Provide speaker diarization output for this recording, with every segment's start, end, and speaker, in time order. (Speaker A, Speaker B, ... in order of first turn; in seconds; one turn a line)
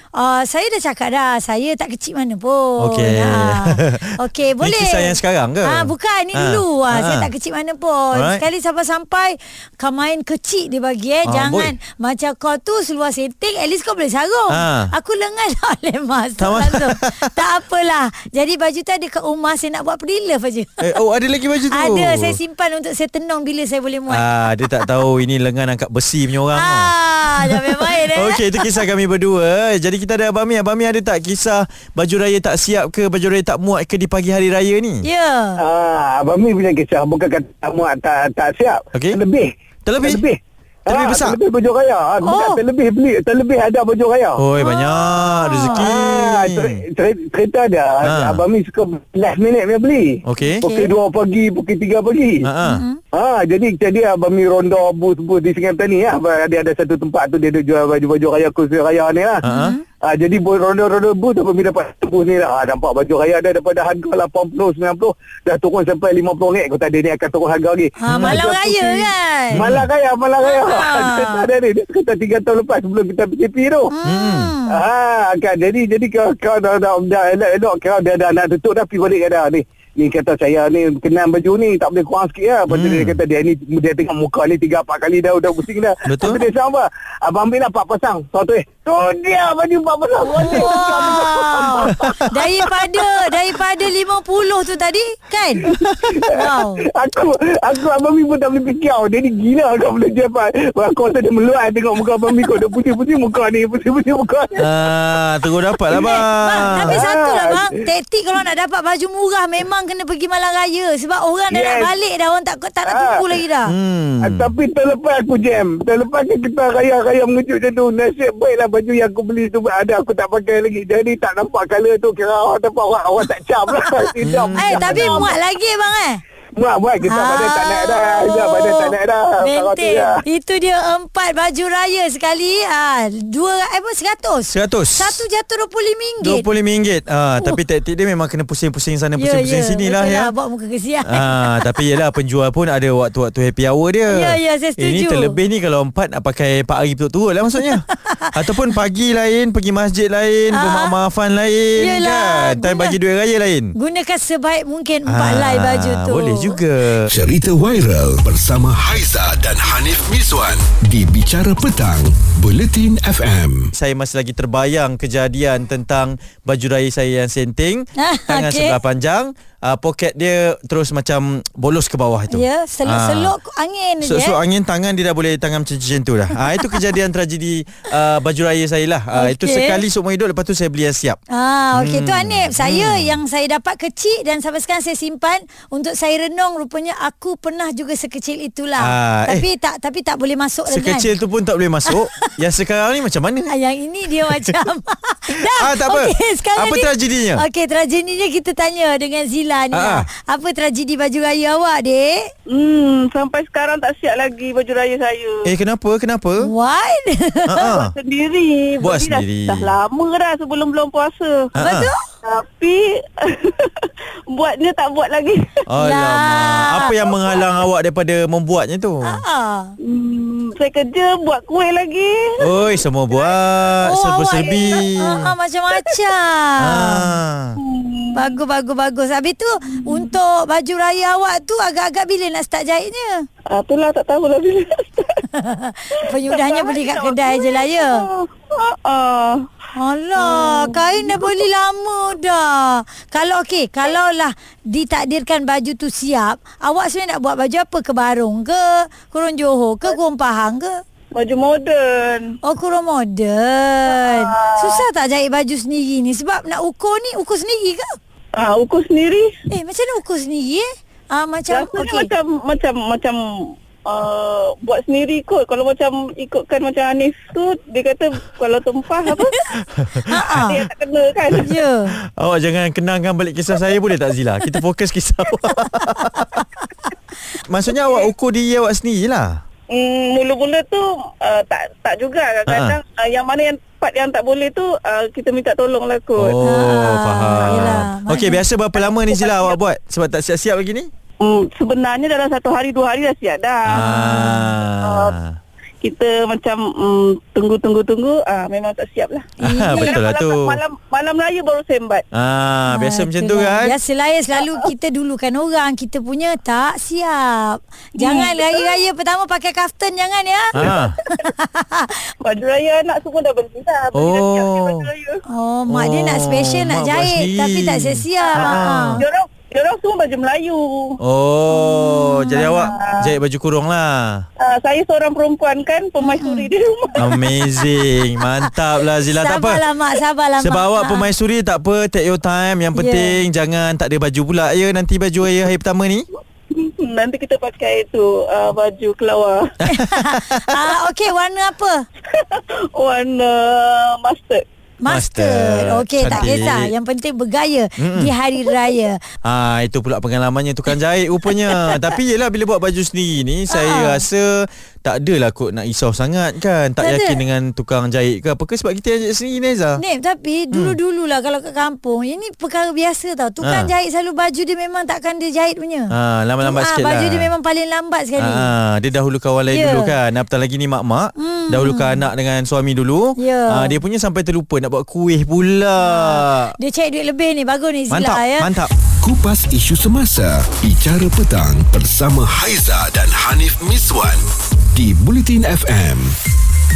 Speaker A: 0.1-20.9
Speaker B: 2.8-7.3
Speaker B: 8.1-8.4
Speaker B: 11.2-11.7
Speaker B: 14.5-14.9
Speaker B: 16.4-17.3
Speaker B: 20.8-22.4
Speaker A: 21.7-25.0
Speaker B: 24.1-35.0
Speaker A: 26.5-28.9
Speaker A: 35.0-35.6
Speaker C: 35.6-44.4
Speaker B: 38.9-39.2
Speaker B: 39.9-40.2
Speaker B: 40.9-41.4
Speaker A: 42.2-42.6
Speaker B: 44.4-46.8
Speaker A: 44.6-45.9
Speaker C: 45.8-52.5
Speaker B: 48.0-48.4
Speaker B: 50.2-50.6
Speaker A: 50.4-50.9
Speaker B: 52.4-52.8
Speaker A: 52.6-53.0
Speaker C: 53.1-59.4
Speaker B: 59.4-59.8
Speaker A: 59.4-59.8
Speaker C: 60.0-73.9
Speaker A: 68.0-69.7
Speaker B: 68.1-68.4
Speaker B: 69.5-69.8
Speaker A: 70.4-71.5
Speaker A: 73.9-74.8
Speaker B: 74.0-74.5
Speaker C: 74.7-92.8
Speaker B: 82.7-83.2
Speaker B: 86.1-86.4
Speaker A: 90.3-95.7
Speaker C: 95.6-104.7
Speaker A: 96.2-96.8
Speaker B: 104.6-107.0
Speaker A: 105.9-113.7
Speaker C: 106.8-107.7
Speaker C: 111.5-111.9
Speaker C: 112.8-113.2
Speaker B: 113.7-114.5
Speaker C: 114.2-125.4
Speaker B: 124.2-125.2
Speaker A: 124.5-126.2
Speaker C: 126.5-130.2
Speaker A: 127.0-136.5
Speaker B: 134.5-135.2
Speaker B: 136.2-140.3
Speaker A: 139.2-141.8
Speaker B: 141.0-153.7
Speaker A: 144.1-145.3
Speaker A: 150.5-150.9
Speaker A: 151.8-152.9
Speaker A: 153.7-156.6
Speaker B: 155.1-157.1
Speaker D: 157.1-163.7
Speaker B: 163.7-173.3
Speaker A: 168.0-168.8
Speaker A: 172.3-174.4
Speaker B: 174.0-181.2
Speaker A: 176.4-176.8
Speaker A: 179.1-179.8
Speaker A: 181.3-191.1
Speaker B: 181.7-183.2
Speaker B: 188.8-189.4
Speaker B: 190.7-193.5
Speaker A: 191.9-192.3
Speaker A: 193.5-202.3
Speaker B: 194.2-194.5
Speaker B: 195.4-197.4
Speaker B: 199.7-200.1
Speaker E: 202.5-205.4
Speaker B: 205.4-206.5
Speaker A: 206.4-207.8
Speaker B: 207.5-207.9
Speaker E: 207.7-211.5
Speaker B: 208.8-209.7
Speaker B: 211.5-211.9
Speaker A: 211.6-212.0
Speaker E: 212.2-215.5
Speaker B: 215.7-219.2
Speaker A: 215.8-216.9
Speaker E: 216.9-217.4
Speaker A: 219.0-219.7
Speaker E: 219.8-223.7
Speaker B: 222.4-225.3
Speaker A: 223.8-227.1
Speaker E: 224.4-225.1
Speaker B: 226.6-227.6
Speaker E: 227.6-228.3
Speaker A: 228.1-233.3
Speaker E: 229.7-230.1
Speaker E: 233.5-235.2
Speaker A: 235.3-238.1
Speaker E: 236.0-239.4
Speaker A: 239.8-250.8
Speaker E: 240.2-241.4
Speaker E: 251.1-252.4
Speaker A: 252.4-258.0
Speaker E: 253.9-254.8
Speaker E: 258.4-259.3
Speaker A: 259.5-262.1
Speaker E: 261.5-269.4
Speaker B: 269.5-270.5
Speaker A: 270.1-270.6
Speaker E: 270.4-271.5
Speaker A: 271.4-271.9
Speaker B: 272.1-276.4
Speaker B: 277.5-279.4
Speaker E: 277.7-278.1
Speaker E: 279.7-286.4
Speaker B: 282.5-282.8
Speaker B: 286.1-290.9
Speaker A: 286.4-288.4
Speaker E: 288.8-289.6
Speaker E: 291.2-294.0
Speaker B: 293.7-295.4
Speaker A: 293.7-294.5
Speaker E: 294.8-295.1
Speaker E: 295.8-302.0
Speaker A: 299.4-300.0
Speaker B: 299.4-300.6
Speaker B: 302.1-303.8
Speaker A: 302.7-310.5
Speaker E: 308.0-308.8
Speaker B: 310.5-311.0
Speaker E: 310.6-311.1
Speaker A: 311.1-311.9
Speaker E: 312.2-315.2
Speaker B: 313.9-314.9
Speaker A: 315.3-319.0
Speaker B: 315.7-319.0
Speaker E: 318.3-321.0
Speaker B: 321.0-324.2
Speaker A: 321.5-322.7
Speaker E: 322.3-323.0
Speaker E: 324.4-327.0
Speaker A: 326.0-326.5
Speaker B: 327.0-329.6
Speaker A: 327.0-328.5
Speaker A: 329.0-331.1
Speaker B: 330.4-336.1
Speaker A: 332.7-333.2
Speaker E: 336.5-339.5
Speaker B: 339.6-340.7
Speaker A: 339.7-341.8
Speaker E: 342.1-344.4
Speaker A: 344.8-349.1
Speaker B: 344.9-346.7
Speaker B: 347.8-348.1
Speaker B: 349.2-359.8
Speaker A: 353.5-354.0
Speaker A: 356.8-357.2
Speaker A: 359.8-368.5
Speaker B: 360.5-360.8
Speaker B: 363.4-363.7
Speaker B: 365.9-367.3
Speaker B: 368.2-376.5
Speaker A: 369.5-369.9
Speaker A: 371.2-372.1
Speaker A: 373.2-373.8
Speaker A: 375.8-378.5
Speaker B: 377.9-378.7
Speaker D: 379.0-386.2